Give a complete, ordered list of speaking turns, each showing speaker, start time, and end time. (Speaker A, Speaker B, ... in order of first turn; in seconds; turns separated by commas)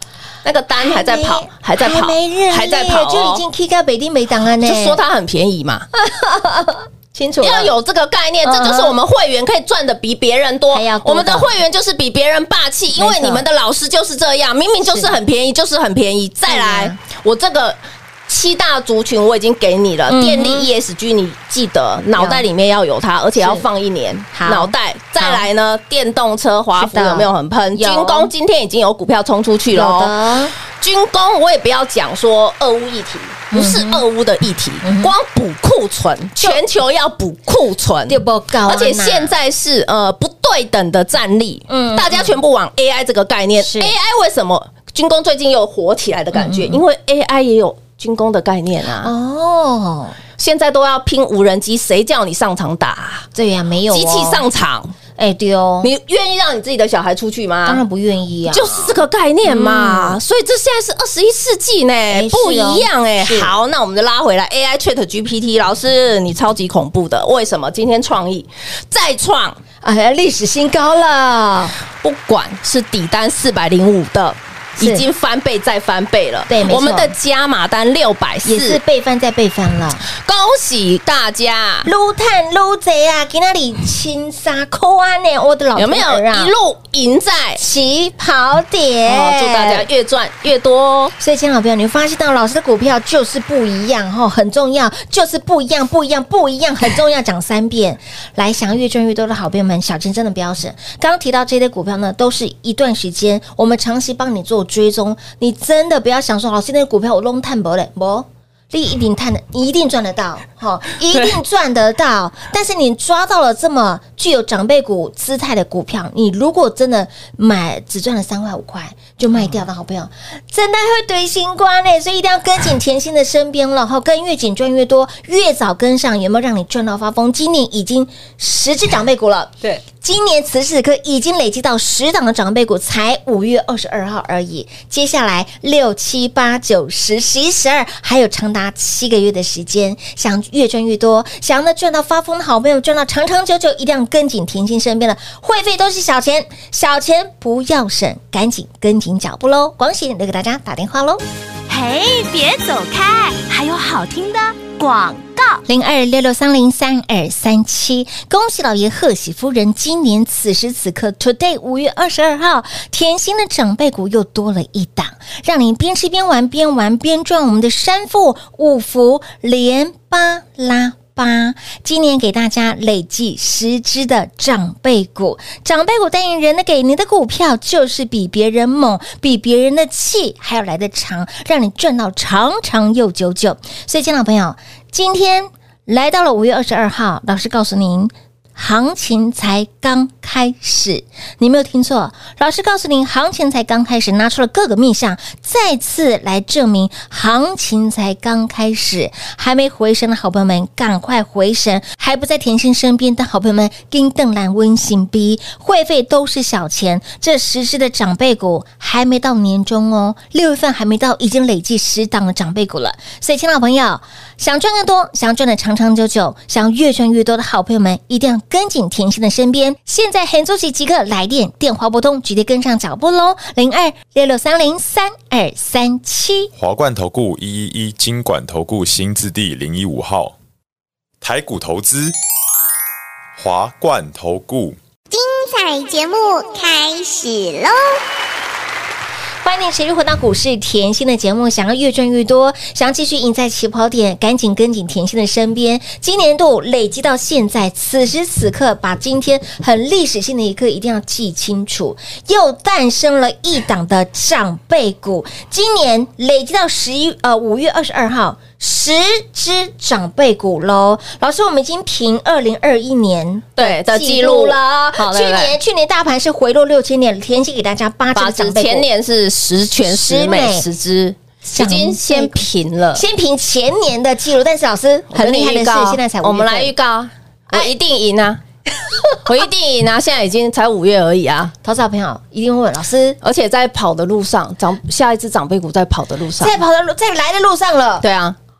Speaker A: 0.4-3.4, Speaker B: 0.8-5.0, Speaker A: 4.6-5.9, Speaker B: 6.0-7.7, Speaker A: 7.4-30.1, Speaker B: 8.4-8.9, Speaker B: 10.7-11.5, Speaker B: 13.0-13.4, Speaker B: 14.8-15.2, Speaker B: 16.5-17.0, Speaker B: 20.1-20.7, Speaker B: 22.2-22.4, Speaker B: 23.4-23.6, Speaker B: 24.3-25.5, Speaker B: 26.8-28.3, Speaker B: 29.7-30.5, Speaker A: 30.6-49.1, Speaker B: 33.5-34.0, Speaker B: 34.8-35.1, Speaker B: 38.1-39.3, Speaker B: 41.7-42.4, Speaker B: 43.6-43.9, Speaker B: 46.3-46.8, Speaker B: 49.0-50.2, Speaker A: 50.4-53.3, Speaker B: 53.4-54.4, Speaker A: 53.9-54.9, Speaker B: 55.2-55.9, Speaker A: 55.8-57.8, Speaker B: 57.7-60.2, Speaker A: 58.5-69.6, Speaker B: 62.1-63.5, Speaker B: 69.8-71.8, Speaker A: 72.0-78.8, Speaker B: 74.8-75.0, Speaker B: 76.5-77.1, Speaker B: 78.5-80.1, Speaker A: 80.1-81.9, Speaker B: 81.8-86.5, Speaker A: 85.8-87.6, Speaker B: 87.6-89.9, Speaker A: 89.1-91.2, Speaker B: 91.2-151.2, Speaker C: 151.7-155.6, Speaker B: 155.7-226.5, Speaker D: 226.6-230.4, Speaker D: 231.2-232.2, Speaker D: 233.4-234.8, Speaker E: 235.1-238.0, Speaker B: 239.4-268.9, Speaker A: 263.6-265.6, Speaker A: 268.1-273.0, Speaker B: 269.9-270.7, Speaker B: 271.4-272.4, Speaker B: 272.9-276.7, Speaker A: 275.1-278.4, Speaker A: 279.2-281.5, Speaker B: 281.6-283.2, Speaker A: 283.2-286.6, Speaker B: 286.4-288.1, Speaker A: 288.0-288.4